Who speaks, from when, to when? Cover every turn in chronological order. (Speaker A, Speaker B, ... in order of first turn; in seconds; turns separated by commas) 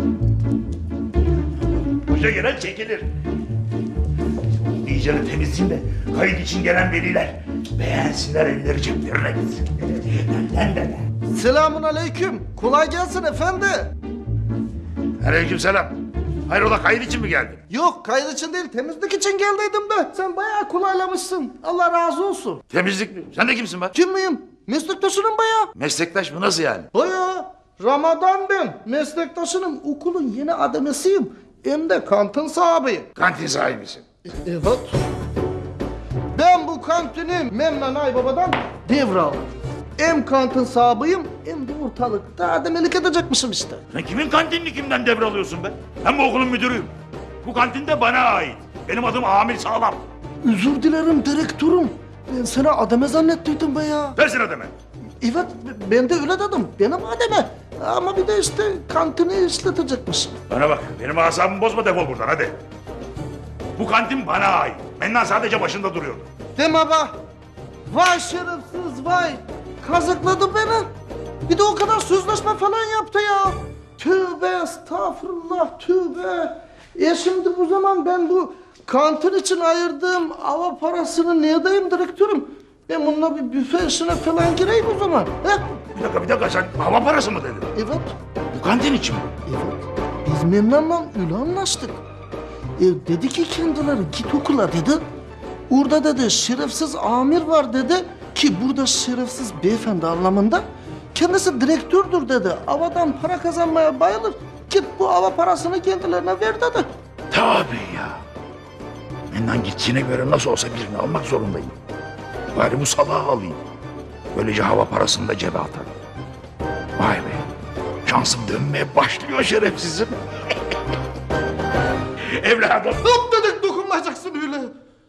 Speaker A: 1.7-3.1, Speaker A: 4.6-11.0, Speaker B: 11.3-13.9, Speaker A: 15.2-17.6, Speaker B: 17.7-22.6, Speaker A: 22.7-23.9, Speaker B: 23.9-25.7, Speaker A: 25.8-26.9, Speaker B: 26.9-33.1, Speaker A: 33.1-34.0, Speaker B: 34.2-35.0, Speaker B: 36.3-43.8, Speaker A: 43.9-50.0, Speaker B: 50.4-54.2, Speaker A: 54.1-54.7, Speaker B: 55.2-60.4, Speaker A: 60.5-62.6, Speaker A: 63.8-66.3, Speaker B: 66.5-67.2, Speaker B: 67.9-70.9, Speaker B: 71.5-85.7, Speaker A: 85.9-87.7, Speaker B: 87.7-88.1, Speaker A: 88.5-89.3, Speaker B: 89.4-92.0, Speaker B: 92.8-95.0, Speaker B: 95.7-106.9, Speaker A: 107.3-108.2, Speaker A: 109.3-111.7, Speaker A: 112.5-113.6, Speaker A: 114.3-115.9, Speaker A: 117.0-117.4, Speaker A: 118.0-120.2, Speaker A: 122.2-123.1, Speaker B: 123.0-124.7